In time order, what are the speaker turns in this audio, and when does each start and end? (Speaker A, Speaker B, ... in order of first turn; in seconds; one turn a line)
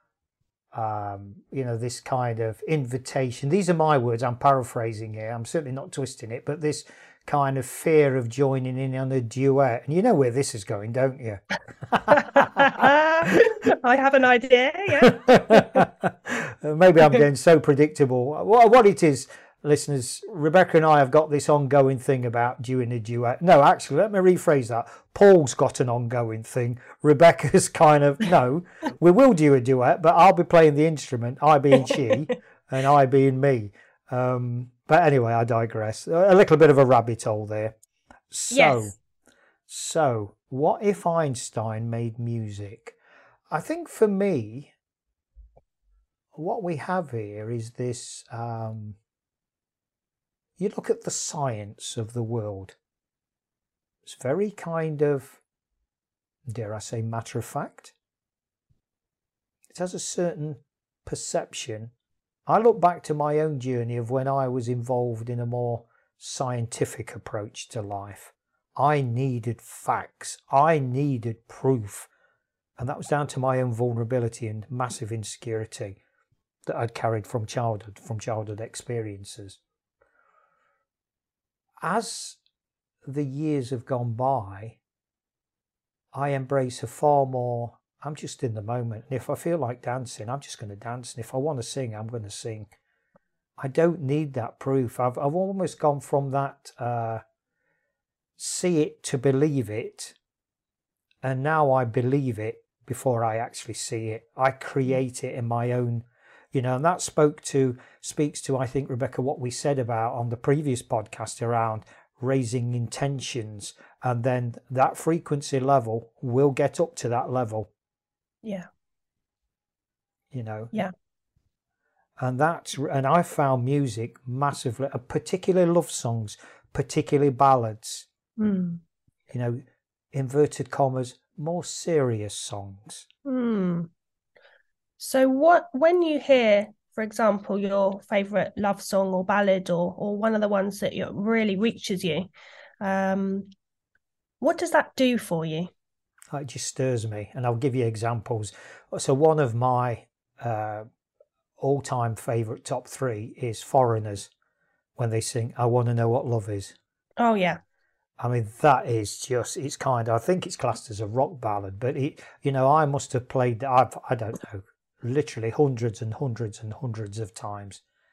Speaker A: 0.7-13.4
Speaker B: 12.2-15.8
Speaker A: 15.0-37.8
Speaker A: 38.3-39.0
Speaker B: 38.5-38.8
Speaker A: 39.7-43.0
Speaker A: 43.5-44.7
Speaker A: 46.4-49.0
Speaker A: 50.6-52.8
Speaker A: 54.0-55.4
Speaker A: 56.5-57.9
Speaker A: 59.7-61.9
Speaker A: 62.5-72.1
Speaker A: 72.8-76.0
Speaker A: 76.7-79.6
Speaker A: 81.8-82.4
Speaker A: 83.1-84.8
Speaker A: 86.1-92.7
Speaker A: 93.6-97.2
Speaker A: 98.4-100.2
Speaker A: 101.2-117.7
Speaker A: 120.3-120.7
Speaker A: 122.2-128.1
Speaker B: 128.4-128.8
Speaker A: 129.3-129.6
Speaker A: 130.1-133.1
Speaker B: 133.2-133.9
Speaker B: 135.0-142.3
Speaker B: 142.8-143.5
Speaker B: 144.4-145.7
Speaker A: 146.3-150.9
Speaker A: 151.6-154.3
Speaker A: 155.0-156.8
Speaker B: 157.2-157.6
Speaker A: 158.2-167.8